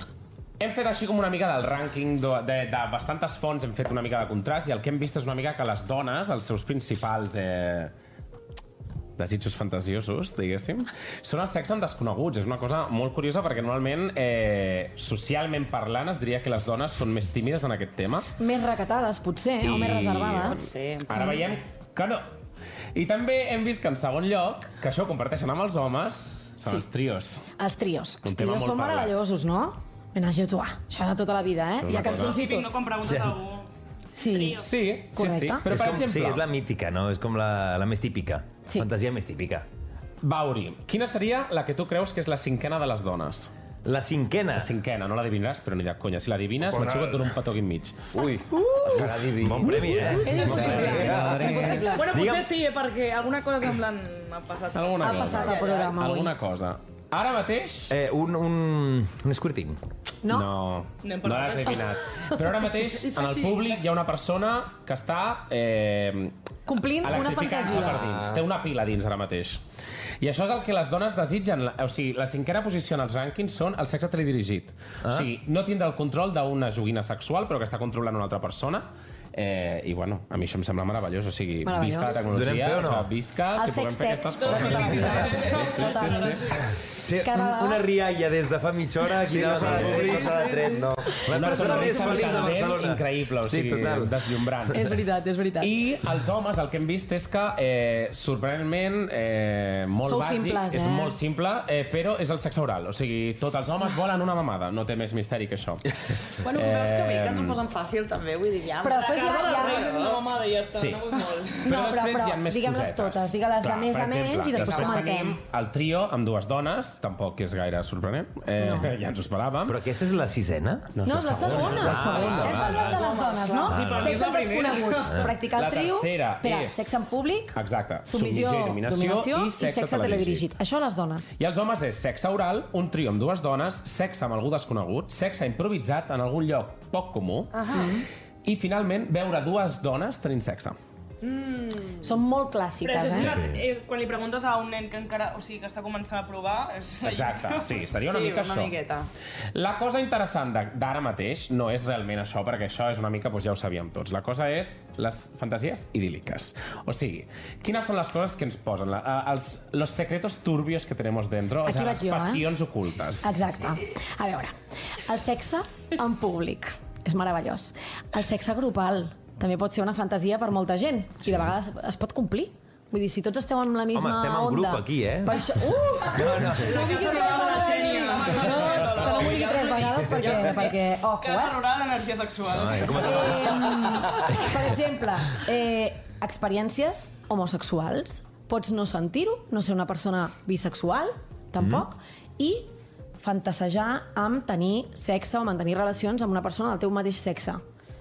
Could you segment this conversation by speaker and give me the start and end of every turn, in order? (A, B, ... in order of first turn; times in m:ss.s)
0:00.6-0:07.9 A
0:09.2-0:18.3 A
0:18.4-0:20.6 B
0:19.6-0:22.2 A
0:20.4-0:21.4 C
0:21.1-0:21.4 B
0:22.9-0:27.4 A
0:27.6-0:32.7 B
0:28.2-0:29.1 A
0:31.8-0:32.4 A
0:31.9-0:33.7 D
0:33.1-0:33.3 E
0:34.2-0:35.7 B
0:34.2-0:34.7 D
0:34.6-0:36.4 A
0:35.6-0:39.6 E
0:40.2-0:43.5 A
0:43.8-0:44.7 E
0:44.5-0:48.1 A
0:46.6-0:47.3 E
0:48.1-0:51.8 F
0:48.5-0:49.0 B
0:48.9-0:52.5 E
0:49.7-0:52.0 B
0:50.5-0:51.6 A
0:51.8-0:55.3 D
0:54.7-0:57.9 A
0:55.0-0:56.3 B
0:55.3-0:56.0 C
0:57.9-0:59.8 E
1:00.2-1:00.5 B
1:00.3-1:09.6 A
1:01.0-1:01.9 D
1:02.1-1:02.4 B
1:03.2-1:03.6 C
1:06.7-1:08.0 B
1:08.0-1:08.4 F
1:10.2-1:26.5 A
1:15.0-1:15.3 E
1:21.6-1:22.2 B
1:22.3-1:23.1 E
1:23.5-1:26.5 B
1:24.4-1:26.7 D
1:27.0-1:34.3 E
1:27.2-1:27.9 B
1:29.2-1:31.2 F
1:29.6-1:30.9 C
1:31.3-1:35.0 A
1:31.6-1:32.3 B
1:34.7-1:35.8 B
1:35.6-1:47.6 A
1:40.0-1:41.2 B
1:46.4-1:50.3 C
1:48.8-1:49.9 B
1:48.9-1:51.7 D
1:50.7-1:59.8 A
1:51.7-1:55.4 B
1:58.6-1:59.0 B
1:59.7-2:03.1 E
2:01.0-2:02.4 A
2:01.0-2:11.3 B
2:01.8-2:02.4 F
2:02.1-2:03.8 C
2:03.6-2:04.3 E
2:03.8-2:04.5 A
2:03.8-2:05.2 D
2:05.0-2:05.3 E
2:05.3-2:07.0 A
2:07.5-2:10.5 A
2:11.4-2:17.6 A
2:17.5-2:18.0 C
2:17.7-2:18.0 B
2:18.4-2:20.8 A
2:21.2-2:22.1 C
2:22.0-2:23.4 B
2:22.8-2:27.9 D
2:23.2-2:23.6 E
2:27.0-2:28.7 A
2:28.0-2:29.1 C
2:29.5-2:43.3 A
2:41.6-2:42.5 B
2:43.2-3:01.6 B
2:53.9-2:55.5 E
2:56.1-2:56.7 E
2:56.6-3:00.7 C
2:56.8-2:58.9 D
3:01.2-3:03.4 D
3:02.5-3:04.6 E
3:03.0-3:17.6 B